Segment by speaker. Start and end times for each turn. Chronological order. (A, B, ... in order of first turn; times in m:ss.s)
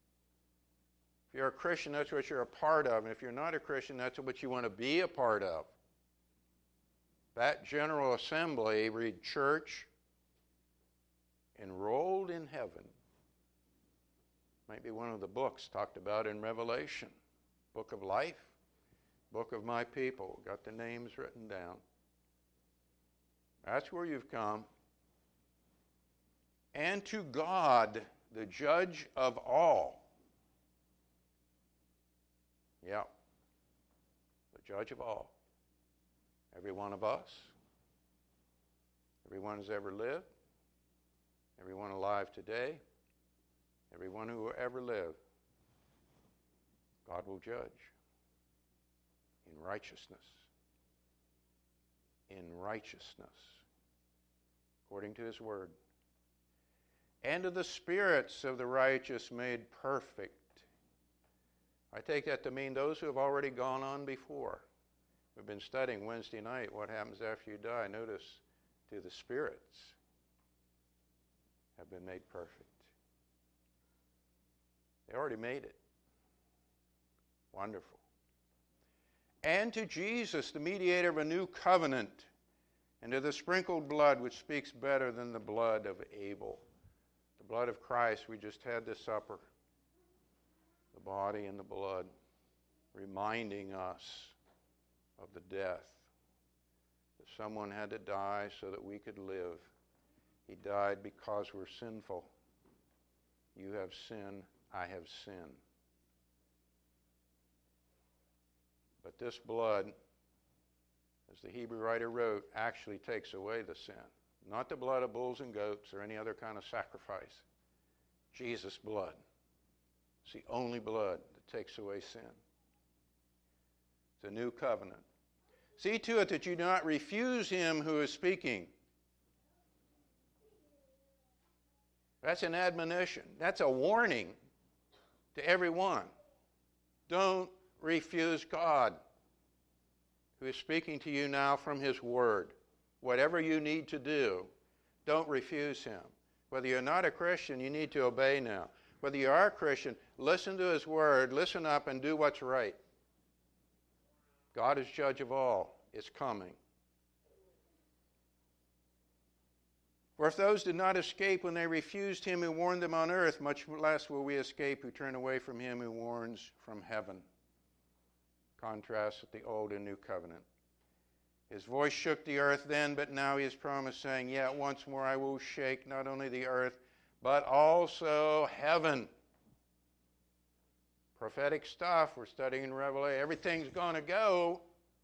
0:01.3-0:05.7 A
0:07.4-0:09.9 A
0:11.6-0:12.9 A
0:14.7-0:17.1 A
0:17.7-0:18.6 A
0:19.3-0:21.8 A
0:23.6-0:24.7 A
0:26.7-0:30.1 A
0:32.8-0:33.1 A
0:34.5-0:35.4 A
0:36.5-0:37.5 A
0:39.2-0:40.3 A
0:41.6-0:42.8 A
0:43.9-0:45.2 A
0:47.1-0:47.9 A
0:49.4-0:50.5 A
0:52.3-0:53.6 A
0:54.9-0:55.7 A
0:57.2-1:00.6 A
1:01.9-1:04.6 A
1:05.4-1:10.0 A
1:11.8-1:12.9 A
1:15.1-1:15.8 A
1:17.5-1:18.0 A
1:19.4-1:22.3 A
1:23.0-1:26.6 A
1:27.4-1:29.5 A
1:30.9-1:32.1 A
1:32.9-1:34.4 A
1:35.2-1:36.1 A
1:37.2-1:39.7 A
1:40.4-1:42.3 A
1:43.6-1:45.6 A
1:49.0-1:49.9 A
1:51.3-1:57.4 A
1:58.3-1:59.2 A
2:00.2-2:02.4 A
2:04.2-2:05.0 A
2:05.8-2:08.7 A
2:12.2-2:14.4 A
2:15.3-2:16.1 A
2:17.1-2:19.0 A
2:20.4-2:24.5 A
2:25.0-2:32.8 A
2:34.5-2:36.6 A
2:40.2-2:47.2 A
2:48.6-2:50.4 A
2:51.5-2:59.1 A
3:01.2-3:04.6 A